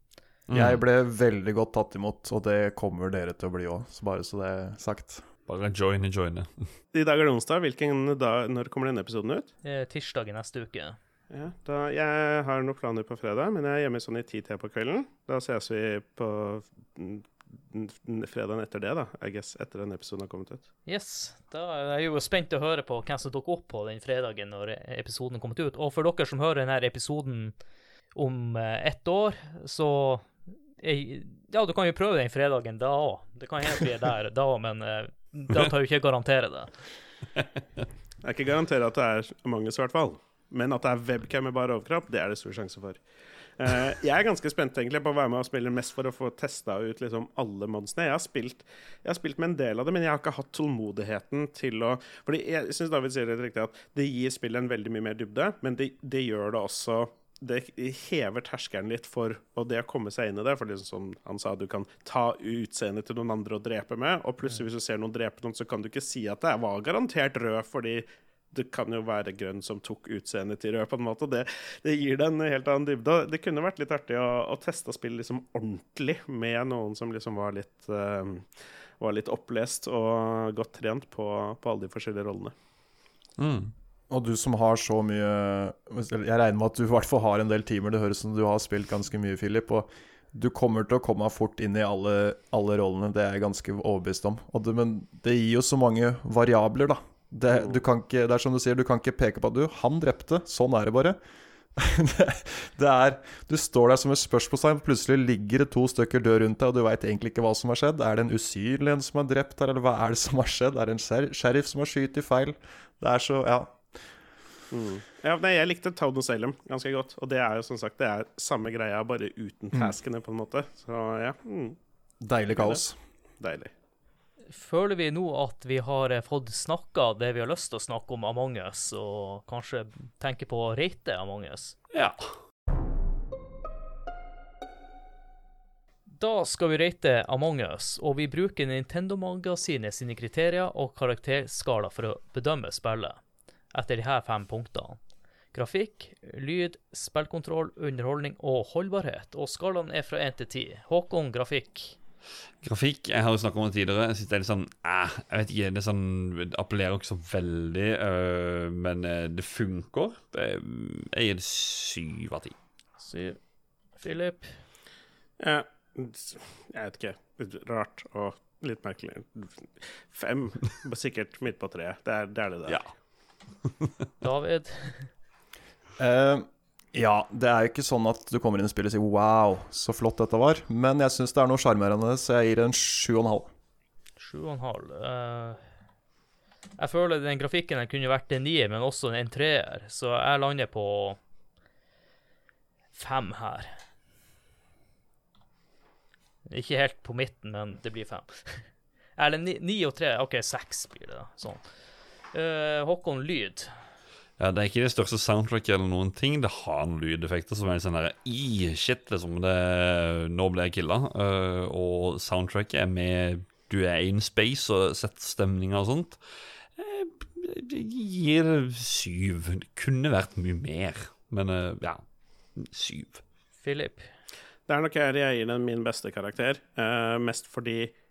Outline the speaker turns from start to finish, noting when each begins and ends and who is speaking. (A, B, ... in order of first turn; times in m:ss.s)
0:00.5-0:00.8 A
0:00.5-0:05.2 B
0:05.5-0:06.7 A
0:06.9-0:09.5 C
0:09.6-0:11.0 D
0:11.3-0:20.6 C
0:20.9-0:27.5 D
0:28.2-0:30.3 D
0:30.8-0:36.7 D
0:38.2-0:43.0 C
0:43.6-1:22.5 C
1:23.4-1:23.7 A
1:24.1-1:41.2 B
1:41.8-1:53.9 B
1:54.7-2:01.8 C
2:02.2-2:03.0 B
2:02.5-2:02.8 C
2:03.4-2:03.7 C
2:04.5-2:11.8 D
2:11.9-2:12.3 A
2:16.1-2:23.2 D
2:23.7-2:25.0 D
2:25.5-2:32.0 D
2:32.6-2:42.6 A
2:43.0-2:43.4 D
2:44.0-2:44.5 D
2:45.4-2:52.8 C
2:54.2-2:55.1 D
2:56.0-3:03.5 B
3:04.2-3:05.6 D
3:06.8-3:11.2 D
3:13.0-3:13.8 D
3:16.5-3:21.6 D
3:22.3-3:23.7 D
3:24.4-3:36.2 A
3:36.8-3:42.0 A
3:42.6-3:43.2 A
3:43.6-3:44.1 D
3:44.7-3:47.9 C